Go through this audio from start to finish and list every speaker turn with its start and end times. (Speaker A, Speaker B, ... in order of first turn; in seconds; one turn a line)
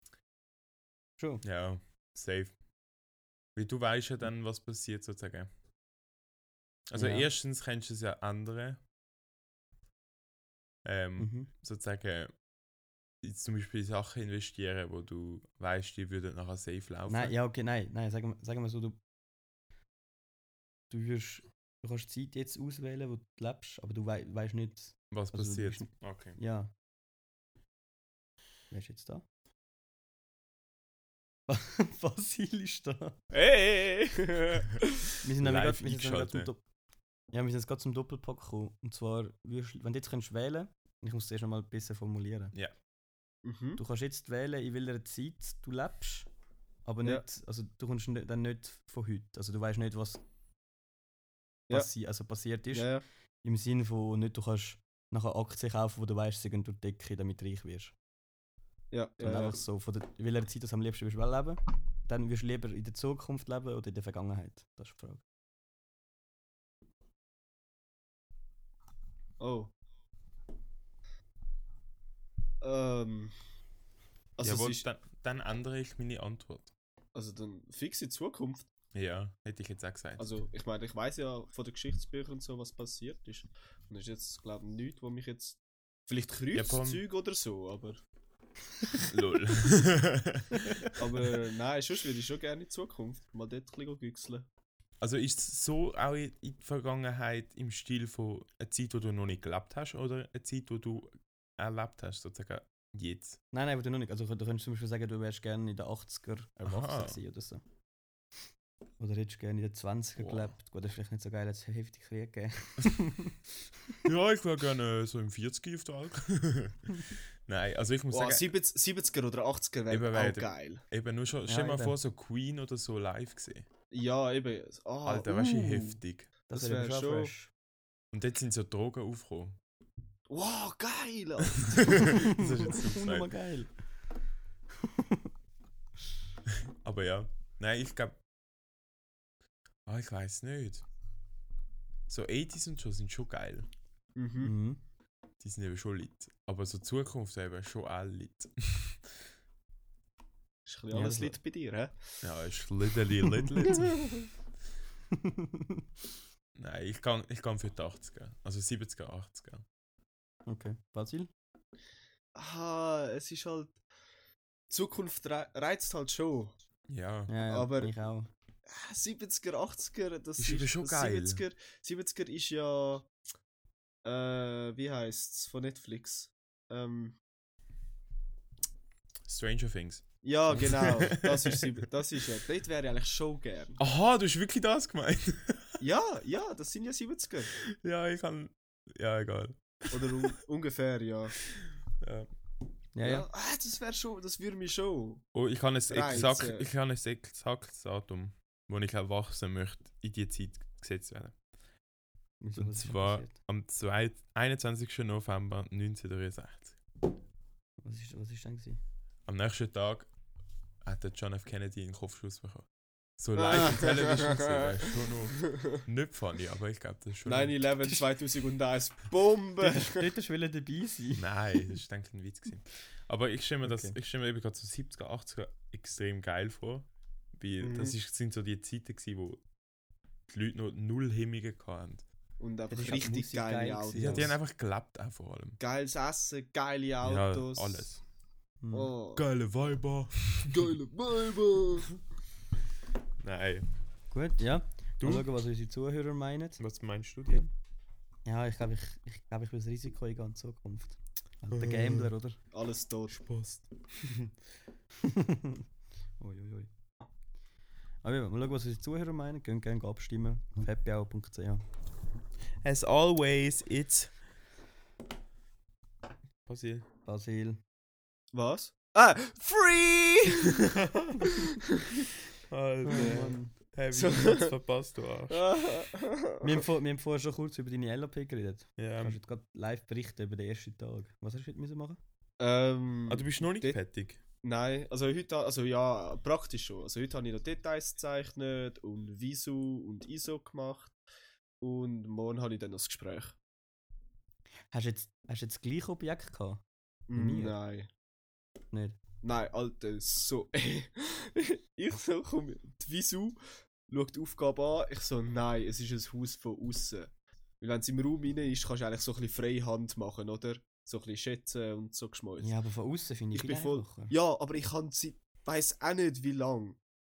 Speaker A: 1.2-1.4
Speaker B: 1.4-2.5
Speaker B: 3.5-5.5
Speaker B: 6.9-8.8
Speaker A: 6.9-7.3
Speaker B: 10.8-12.3
Speaker A: 11.2-11.5
Speaker B: 13.2-17.3
Speaker A: 17.1-19.0
Speaker A: 20.9-26.7
Speaker B: 25.1-26.4
Speaker A: 28.7-29.2
Speaker A: 31.5-33.2
Speaker C: 33.3-34.9
Speaker A: 35.2-36.6
Speaker B: 35.4-36.5
Speaker A: 37.3-42.5
Speaker C: 43.4-43.8
Speaker A: 43.8-46.3
Speaker A: 46.8-50.2
Speaker A: 51.7-52.9
Speaker C: 52.7-53.0
Speaker A: 53.4-57.9
Speaker C: 58.9-59.6
Speaker A: 59.2-65.2
Speaker C: 69.4-69.7
Speaker C: 72.6-73.3
Speaker C: 74.4-74.8
Speaker B: 74.4-76.7
Speaker C: 77.1-78.7
Speaker B: 78.9-80.3
Speaker C: 80.2-88.0
Speaker B: 86.5-87.0
Speaker B: 89.1-90.9
Speaker A: 90.6-90.9
Speaker C: 90.9-94.5
Speaker B: 95.0-103.4
Speaker A: 103.5-107.6
Speaker B: 106.6-107.2
Speaker A: 109.0-113.3
Speaker B: 110.2-110.5
Speaker B: 114.0-118.5
Speaker C: 118.1-120.8
Speaker B: 119.9-123.7
Speaker A: 121.5-122.0
Speaker C: 123.9-125.3
Speaker B: 125.0-126.3
Speaker A: 125.2-127.5
Speaker C: 126.5-127.3
Speaker B: 128.1-129.6
Speaker C: 130.3-132.1
Speaker B: 131.6-133.3
Speaker A: 132.0-133.7
Speaker A: 134.8-135.2
Speaker B: 136.8-138.2
Speaker B: 139.8-140.8
Speaker B: 142.1-143.7
Speaker C: 144.2-144.5
Speaker A: 144.4-144.8
Speaker B: 145.4-149.2
Speaker C: 150.7-152.2
Speaker A: 150.9-151.4
Speaker B: 152.2-154.1
Speaker A: 155.1-155.8
Speaker B: 156.6-159.6
Speaker A: 160.4-161.3
Speaker C: 162.3-163.8
Speaker C: 164.7-166.5
Speaker B: 166.9-167.3
Speaker A: 167.3-168.3
Speaker C: 167.5-167.9
Speaker C: 168.7-173.1
Speaker B: 170.4-171.4
Speaker C: 174.0-177.2
Speaker B: 179.3-181.7
Speaker C: 180.2-183.8
Speaker B: 183.8-185.7
Speaker C: 185.8-187.5
Speaker B: 187.7-190.3
Speaker C: 189.9-191.3
Speaker B: 192.0-192.3
Speaker A: 192.9-193.3
Speaker C: 193.0-195.2
Speaker B: 195.3-201.3
Speaker C: 195.9-196.7
Speaker A: 202.4-203.3
Speaker B: 202.5-206.8
Speaker A: 207.8-208.8
Speaker B: 209.2-210.1
Speaker B: 210.8-212.7
Speaker B: 213.2-217.6
Speaker C: 213.3-215.8
Speaker C: 217.2-220.1
Speaker A: 219.6-221.2
Speaker B: 221.1-229.4
Speaker A: 223.6-223.9
Speaker C: 227.6-227.9
Speaker B: 230.3-232.0
Speaker C: 232.4-234.3
Speaker A: 232.7-234.3
Speaker B: 233.9-235.6
Speaker C: 235.6-237.9
Speaker B: 237.0-238.0
Speaker A: 238.6-238.9
Speaker C: 238.7-239.2
Speaker B: 239.1-240.6
Speaker C: 240.5-241.9
Speaker B: 243.2-243.7
Speaker A: 244.1-246.6
Speaker B: 245.0-245.3
Speaker B: 246.6-247.5
Speaker A: 248.2-252.4
Speaker B: 251.5-252.1
Speaker C: 252.5-253.2
Speaker B: 253.1-254.3
Speaker A: 255.0-255.6
Speaker A: 256.2-256.7
Speaker A: 258.0-261.6
Speaker B: 262.6-264.1
Speaker B: 266.4-266.9
Speaker A: 267.0-267.6
Speaker C: 268.3-272.1
Speaker B: 272.5-275.5
Speaker A: 272.8-273.5
Speaker C: 272.9-273.4
Speaker C: 273.9-274.5
Speaker C: 275.3-276.6
Speaker A: 276.4-282.0
Speaker B: 278.8-279.2
Speaker C: 282.4-283.8
Speaker B: 283.1-284.2
Speaker C: 284.4-290.9
Speaker C: 291.6-293.4
Speaker A: 294.7-296.6
Speaker C: 297.1-297.9
Speaker A: 297.1-297.6
Speaker A: 298.7-299.0
Speaker C: 299.2-312.5
Speaker A: 312.4-314.1
Speaker C: 313.3-316.8